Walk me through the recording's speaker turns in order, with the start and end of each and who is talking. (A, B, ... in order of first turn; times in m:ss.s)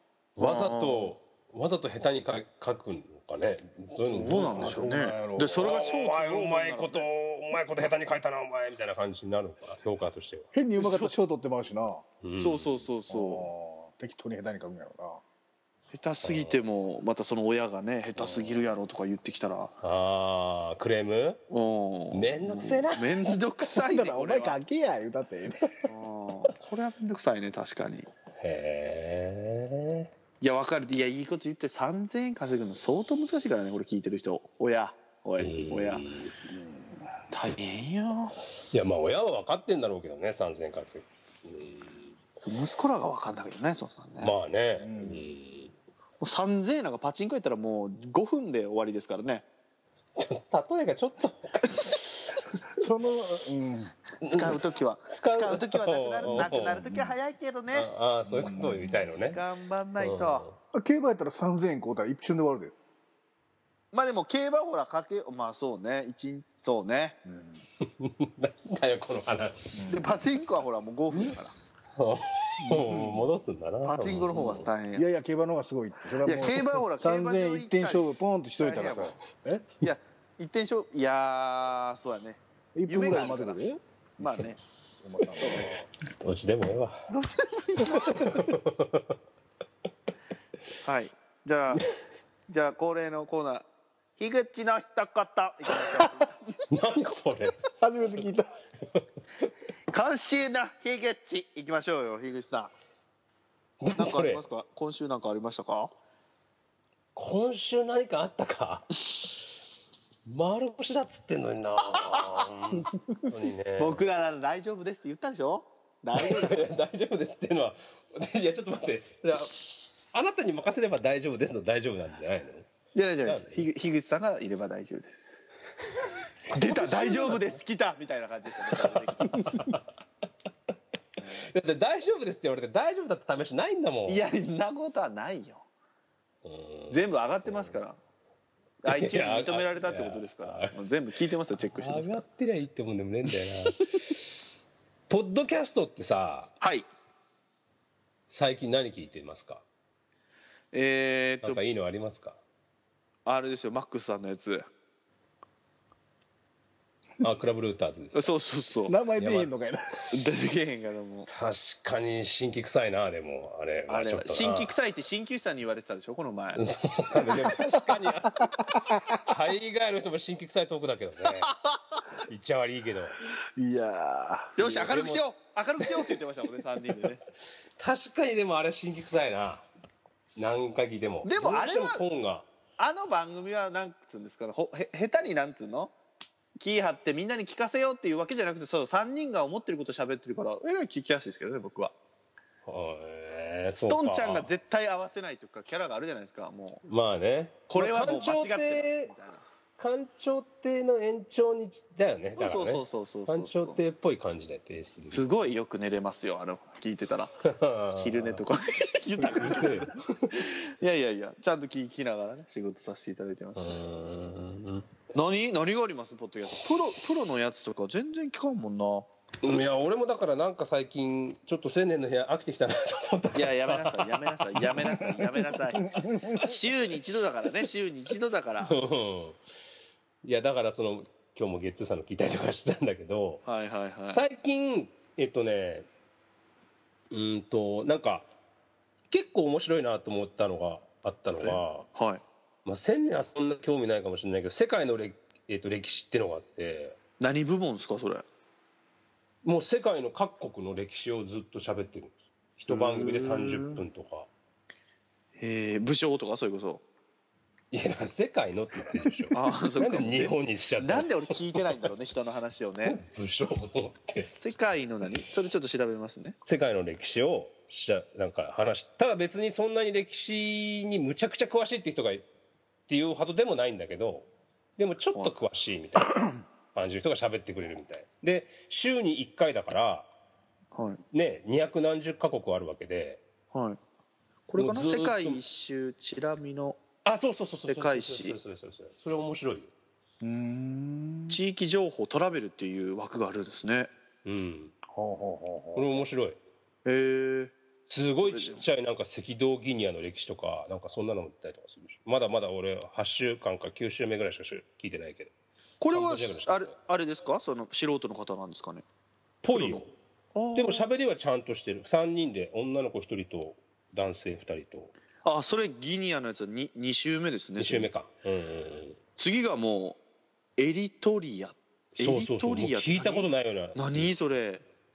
0:00.4-0:05.0 A
0:00.4-0:01.1 B
0:04.1-0:07.1 B
0:04.3-0:05.7 C
0:05.5-0:10.5 A
0:10.5-0:12.0 C
0:10.8-0:11.1 B
0:12.2-0:12.9 A
0:12.4-0:13.5 B
0:13.1-0:15.2 C
0:15.9-0:19.7 B
0:16.2-0:16.6 A
0:18.2-0:18.6 A
0:19.8-0:21.4 A
0:21.5-0:24.6 B
0:22.1-0:23.4 A
0:23.7-0:25.7 C
0:25.8-0:28.1 B
0:28.4-0:30.1 A
0:30.4-0:36.0 B
0:35.4-0:36.3 A
0:36.5-0:37.1 C
0:37.3-0:38.4 B
0:38.7-0:42.1 A
0:42.4-0:44.3 B
0:44.2-0:45.7 A
0:44.8-0:45.2 C
0:46.2-0:49.4 B
0:50.2-0:52.1 A
0:52.7-0:53.9 C
0:54.2-0:57.9 B
0:54.2-0:56.9 A
0:56.3-0:57.0 C
0:57.7-0:59.4 A
0:58.2-0:59.1 C
0:59.3-1:00.4 B
1:00.0-1:00.6 A
1:00.7-1:02.7 C
1:03.9-1:07.2 B
1:07.2-1:07.6 C
1:07.8-1:09.7 A
1:09.7-1:10.0 C
1:09.9-1:11.6 B
1:11.9-1:14.7 A
1:12.6-1:13.3 C
1:13.8-1:15.1 B
1:14.9-1:19.7 C
1:16.2-1:19.2 B
1:19.8-1:24.6 B
1:22.7-1:24.4 C
1:25.0-1:25.9 C
1:25.4-1:25.7 B
1:26.2-1:27.1 A
1:27.1-1:28.5 B
1:28.2-1:29.1 A
1:30.8-1:31.9 B
1:32.5-1:33.7 B
1:34.2-1:36.6 B
1:36.7-1:37.6 A
1:37.8-1:38.5 C
1:39.9-1:42.7 B
1:43.8-1:44.4 A
1:43.9-1:45.9 B
1:47.1-1:49.0 A
1:50.2-1:54.0 A
1:52.0-1:56.7 B
1:56.2-2:02.7 A
2:02.9-2:05.2 B
2:03.2-2:03.7 A
2:06.5-2:09.7 B
2:06.5-2:07.5 A
2:08.7-2:09.8 A
2:11.2-2:11.5 B
2:11.4-2:14.2 A
2:14.1-2:15.6 B
2:16.4-2:17.8 A
2:16.9-2:18.0 B
2:18.8-2:22.2 B
2:18.9-2:20.8 A
2:21.6-2:24.4 A
2:25.1-2:26.5 A
2:26.6-2:26.9 B
2:28.3-2:29.6 A
2:30.7-2:31.6 B
2:31.4-2:32.4 A
2:33.2-2:34.7 B
2:37.2-2:38.3 A
2:38.1-2:39.0 B
2:38.9-2:40.2 C
2:39.2-2:39.5 A
2:40.1-2:41.3 B
2:41.3-2:44.8 A
2:43.9-2:46.6 B
2:46.6-2:51.5 A
2:47.4-2:49.2 C
2:51.4-2:52.0 B
2:52.2-2:53.2 A
2:53.6-2:54.4 C
2:54.4-2:57.2 B
2:54.6-2:55.2 A
2:57.8-2:59.6 A
3:00.4-3:02.4 A
3:01.2-3:02.0 B
3:02.8-3:05.9 B
3:06.6-3:11.9 B
3:12.6-3:14.5 A
3:13.8-3:16.8 B
3:16.9-3:19.1 A
3:17.7-3:19.4 B
3:19.8-3:25.3 A
3:22.4-3:23.8 B
3:25.1-3:27.3 B
3:27.4-3:28.4 A
3:27.9-3:33.8 B
3:29.2-3:30.4 A
3:33.6-3:34.9 A
3:35.1-3:39.1 B
3:39.4-3:45.4 A
3:43.3-3:48.7 B
3:45.8-3:46.4 C
3:48.6-3:49.4 A
3:50.2-3:53.4 A
3:53.4-3:54.2 B
3:54.1-3:55.9 A
3:57.1-3:58.3 A
3:59.1-4:01.9 A
4:01.4-4:02.2 B
4:02.6-4:07.0 A
4:07.2-4:08.2 B
4:09.4-4:14.3 A
4:13.2-4:13.8 C
4:15.4-4:16.8 B
4:17.7-4:21.8 A
4:19.3-4:23.0 B
4:22.8-4:24.3 A
4:24.3-4:26.4 B
4:26.4-4:32.2 A
4:32.9-4:40.1 A
4:40.7-4:41.0 B
4:41.1-4:43.2 A
4:43.5-4:43.8 B
4:44.5-4:46.8 B
4:44.6-4:45.4 A
4:47.0-4:49.7 A
4:47.7-4:48.4 B
4:50.2-4:51.4 C
4:51.3-4:53.9 B
4:54.2-4:54.7 A
4:54.9-4:56.0 C
4:55.7-4:56.4 A
4:56.8-4:57.6 B
4:57.9-5:05.3 A
4:58.2-4:58.6 B
5:05.8-5:08.8 B
5:05.9-5:06.7 A
5:09.4-5:09.9 A
5:09.5-5:09.8 B
5:10.4-5:10.9 B
5:10.6-5:14.9 A
5:15.2-5:17.9 B
5:17.6-5:19.0 A
5:19.2-5:20.0 B
5:20.6-5:24.6 B
5:22.0-5:24.1 A